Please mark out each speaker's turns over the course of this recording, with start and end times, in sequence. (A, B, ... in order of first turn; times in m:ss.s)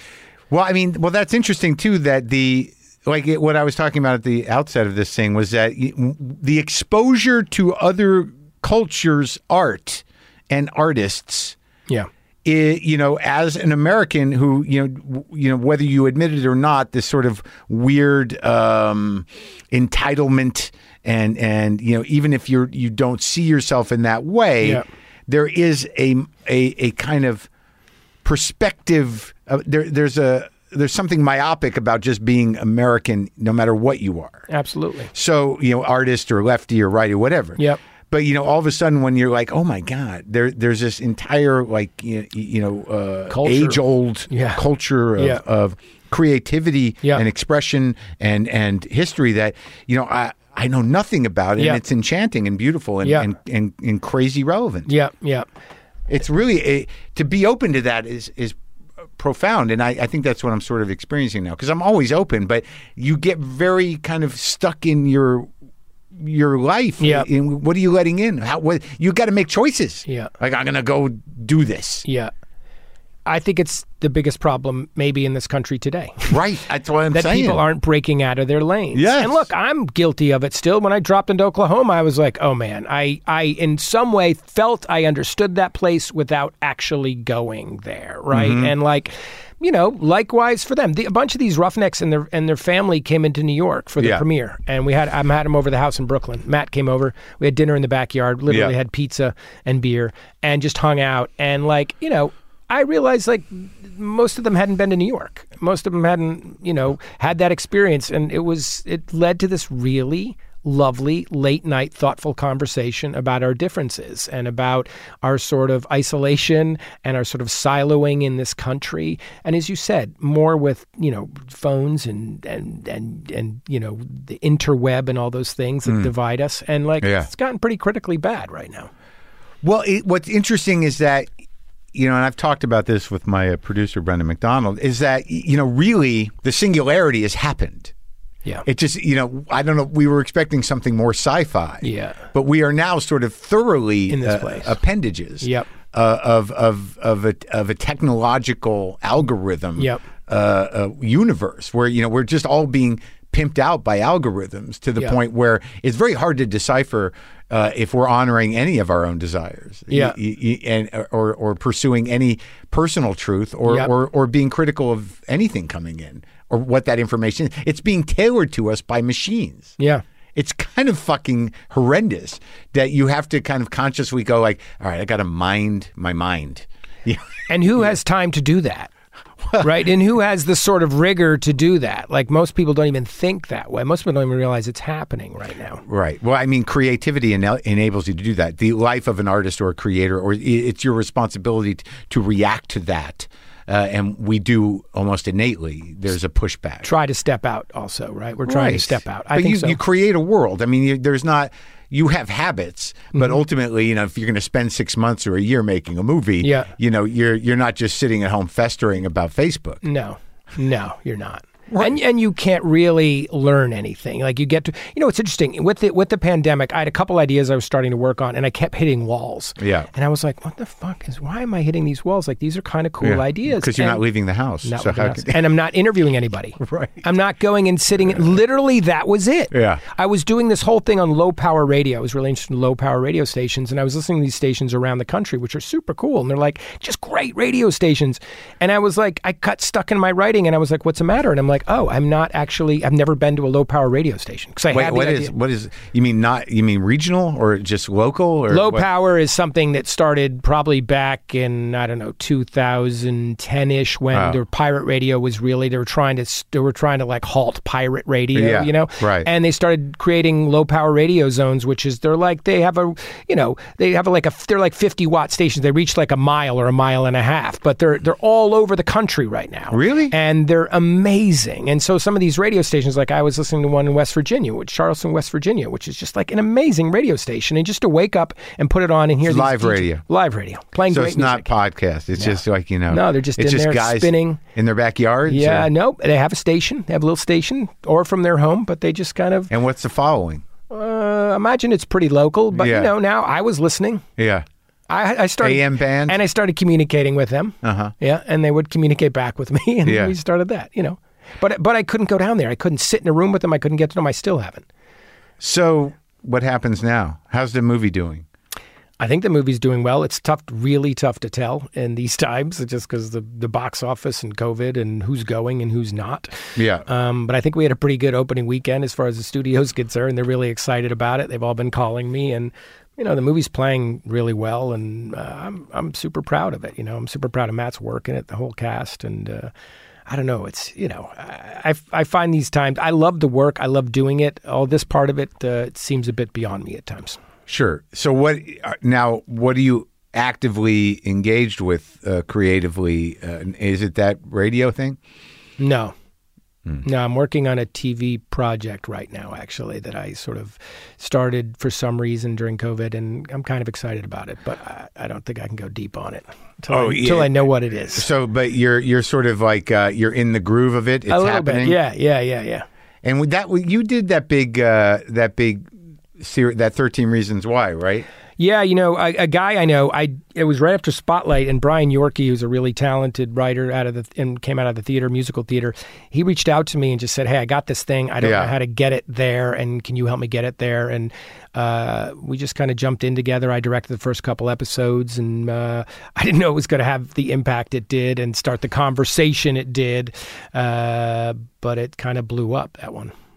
0:00.5-0:11.6 A
0:12.4-0:27.5 A
0:28.2-0:34.5 A
0:34.5-0:35.1 B
0:35.1-0:54.9 A
0:43.3-0:44.6 B
0:54.9-0:55.5 B
0:56.1-0:58.6 A
0:59.2-1:05.5 A
1:06.2-1:12.1 A
1:07.0-1:07.3 B
1:12.1-1:12.3 B
1:13.3-1:16.4 B
1:16.3-1:17.6 A
1:17.1-2:08.9 B
1:18.9-1:19.5 A
1:28.3-1:28.7 A
1:38.5-1:38.7 A
2:07.0-2:07.3 A
2:09.6-2:11.3 A
2:11.9-2:17.9 A
2:18.6-2:49.8 A
2:21.8-2:22.2 B
2:24.1-2:24.8 B
2:25.4-2:25.7 B
2:29.8-2:30.0 B
2:50.4-2:57.8 A
2:57.5-2:58.9 B
2:59.6-3:05.8 B
3:05.8-3:16.9 A
3:16.8-3:19.8 B
3:18.5-3:29.8 A
3:23.1-3:23.4 B
3:26.4-3:26.7 B
3:29.8-3:44.0 B
3:31.7-3:32.0 A
3:39.6-3:39.9 A
3:43.0-3:45.4 A
3:44.6-4:05.3 B
3:46.6-3:47.0 A
3:49.5-3:49.8 A
4:04.7-4:08.8 A
4:08.5-4:41.5 B
4:14.1-4:14.4 A
4:18.4-4:19.3 A
4:29.7-4:30.1 A
4:39.3-4:40.0 A
4:40.9-4:45.7 A
4:42.2-4:44.4 B
4:45.3-4:49.5 B
4:49.5-4:50.4 A
4:50.7-4:54.0 B
4:52.6-4:52.9 A
4:54.2-4:54.5 A
4:54.9-5:04.7 B
4:55.4-4:56.2 A
4:57.6-4:57.9 A
4:59.8-5:00.1 A
5:05.4-5:08.3 A
5:09.0-5:29.5 B
5:16.6-5:16.8 A
5:30.1-5:37.2 B
5:37.5-5:45.0 A
5:45.6-5:45.9 B
5:46.8-5:58.1 B
5:56.7-5:57.4 A
5:57.9-6:01.8 A
6:01.1-6:02.7 B
6:03.0-6:05.7 A
6:06.2-6:08.1 A
6:08.4-6:33.1 B
6:18.2-6:18.5 A